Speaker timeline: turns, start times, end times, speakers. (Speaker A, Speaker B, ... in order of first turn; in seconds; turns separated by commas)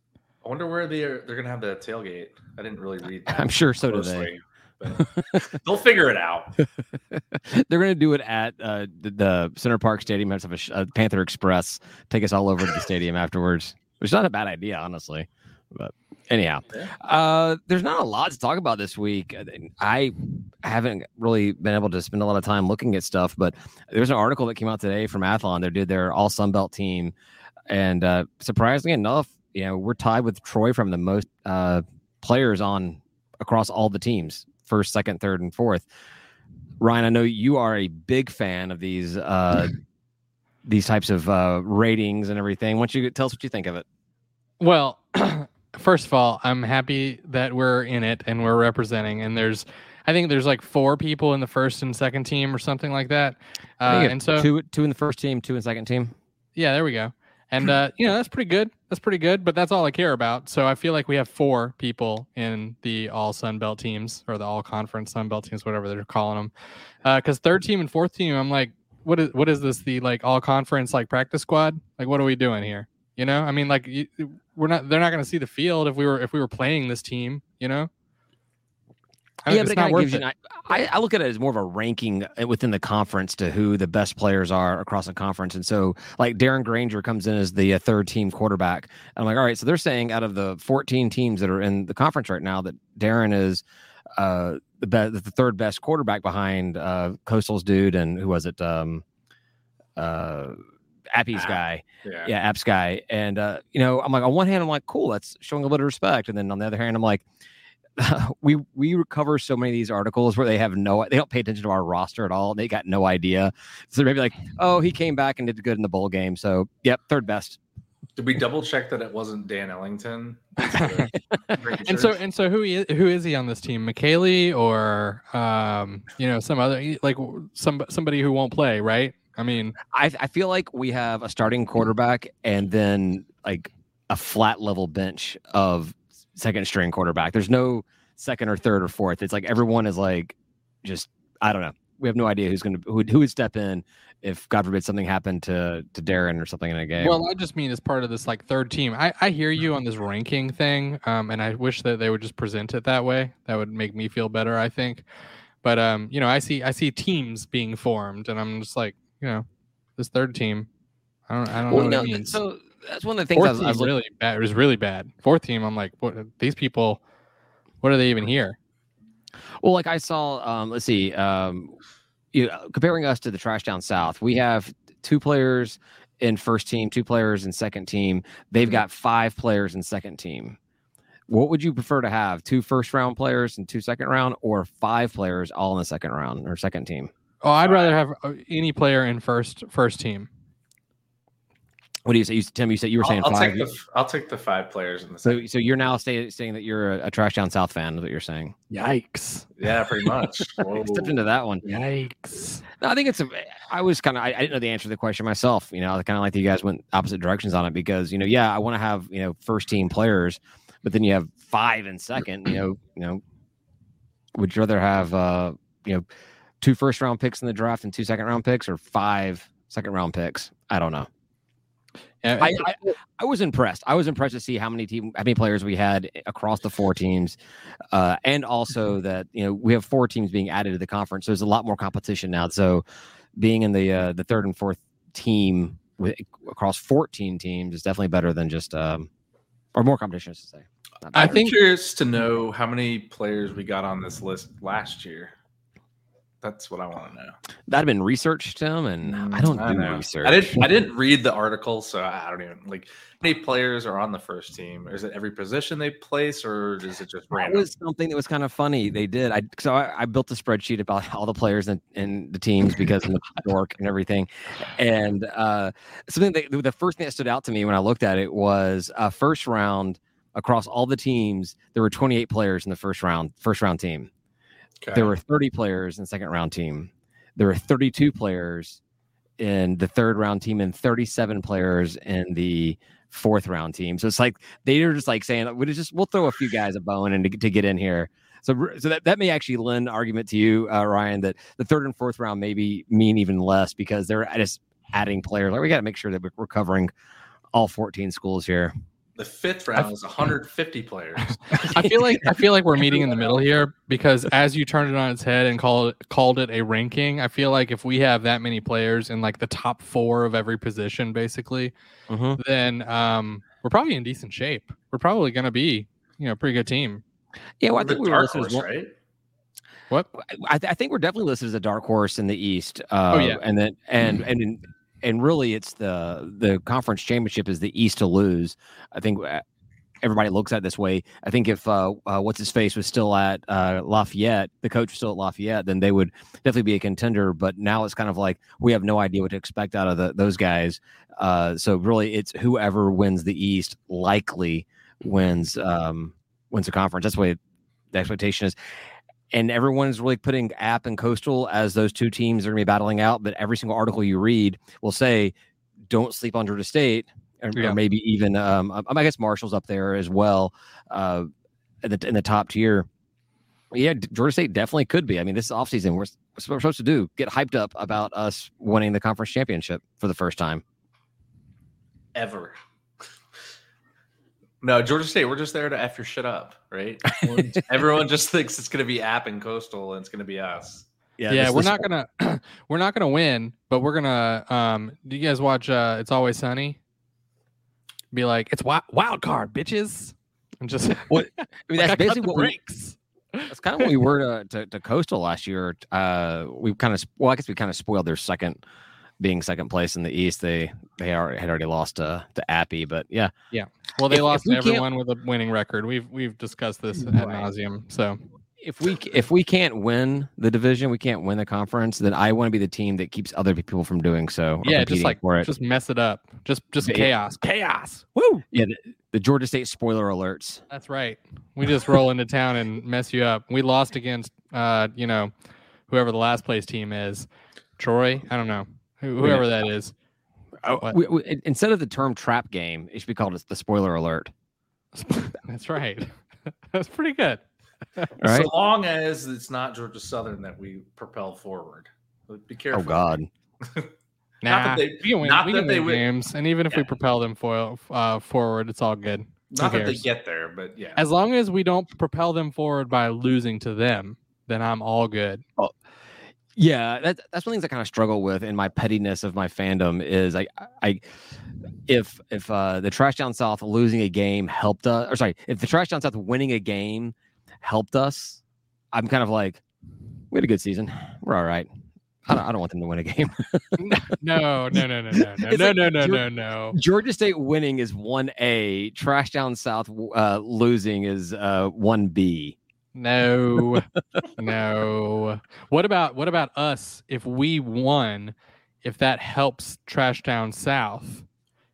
Speaker A: 0.4-6.5, Speaker B: 3.3-4.3, Speaker B: 5.0-5.5, Speaker B: 6.6-27.1, Speaker B: 27.7-35.9, Speaker B: 36.8-39.8, Speaker B: 40.6-43.9, Speaker C: 44.6-54.5, Speaker B: 53.9-56.1, Speaker C: 56.6-66.5, Speaker C: 67.0-77.9, Speaker C: 79.5-80.2, Speaker B: 79.5-93.6, Speaker B: 94.2-99.0, Speaker B: 100.0-100.6, Speaker B: 101.1-107.2, Speaker A: 101.3-102.3, Speaker B: 108.0-117.6, Speaker A: 118.2-122.2, Speaker C: 120.6-121.1, Speaker C: 121.9-129.8, Speaker B: 129.9-147.2, Speaker C: 147.0-155.1, Speaker C: 155.6-159.4, Speaker C: 160.0-160.7, Speaker C: 161.3-162.4, Speaker B: 161.7-163.9, Speaker C: 163.3-167.0, Speaker C: 167.8-168.6, Speaker B: 169.6-171.7, Speaker B: 172.3-180.6, Speaker B: 181.3-187.1, Speaker C: 187.4-190.3, Speaker A: 187.6-187.9, Speaker B: 192.1-193.7, Speaker A: 193.0-195.4, Speaker B: 195.2-198.6, Speaker C: 198.7-199.5, Speaker A: 199.6-201.2, Speaker B: 200.7-201.6, Speaker C: 201.6-202.6, Speaker B: 202.8-213.2, Speaker B: 214.3-216.1, Speaker B: 216.6-221.1, Speaker C: 222.2-222.9, Speaker B: 222.4-227.4, Speaker B: 227.9-232.8, Speaker B: 233.4-239.1, Speaker B: 239.8-241.5, Speaker C: 241.1-241.6, Speaker A: 241.2-245.3, Speaker A: 246.4-247.4, Speaker B: 247.7-250.6, Speaker A: 249.1-257.7, Speaker B: 257.3-274.1, Speaker A: 274.8-275.1, Speaker B: 274.9-278.8, Speaker B: 279.4-296.9, Speaker B: 297.5-298.7, Speaker A: 299.2-301.8, Speaker C: 301.5-311.7, Speaker B: 312.1-312.4, Speaker C: 312.4-317.0, Speaker B: 317.6-318.7, Speaker A: 317.8-318.9, Speaker B: 320.1-329.4, Speaker C: 323.1-323.4, Speaker B: 330.0-347.4, Speaker B: 347.9-348.6, Speaker B: 349.3-355.3, Speaker B: 355.9-361.3, Speaker B: 361.8-362.9, Speaker B: 363.7-370.6, Speaker A: 372.1-372.6, Speaker A: 374.6-380.9, Speaker B: 377.2-377.6, Speaker B: 381.2-381.9, Speaker C: 381.3-386.8, Speaker C: 388.1-393.9, Speaker B: 391.1-392.6, Speaker B: 393.5-398.6, Speaker B: 399.2-403.3, Speaker C: 403.5-408.2, Speaker B: 404.1-404.9, Speaker B: 407.0-407.5, Speaker B: 408.6-415.5, Speaker C: 414.6-418.4, Speaker B: 416.8-417.1, Speaker B: 418.5-420.6, Speaker C: 420.7-425.3, Speaker C: 425.9-429.9, Speaker C: 430.6-431.0, Speaker B: 430.8-434.3, Speaker C: 434.9-437.4, Speaker B: 438.2-438.5, Speaker A: 438.2-443.1, Speaker B: 442.7-443.3, Speaker A: 443.6-443.9, Speaker C: 444.4-450.1, Speaker A: 444.5-446.1, Speaker A: 449.5-451.0, Speaker C: 451.0-455.4, Speaker B: 456.6-461.0, Speaker B: 461.9-468.4, Speaker B: 468.9-469.6, Speaker B: 470.3-471.7, Speaker B: 472.3-474.0, Speaker C: 473.8-476.8, Speaker B: 475.1-482.6, Speaker C: 482.9-491.3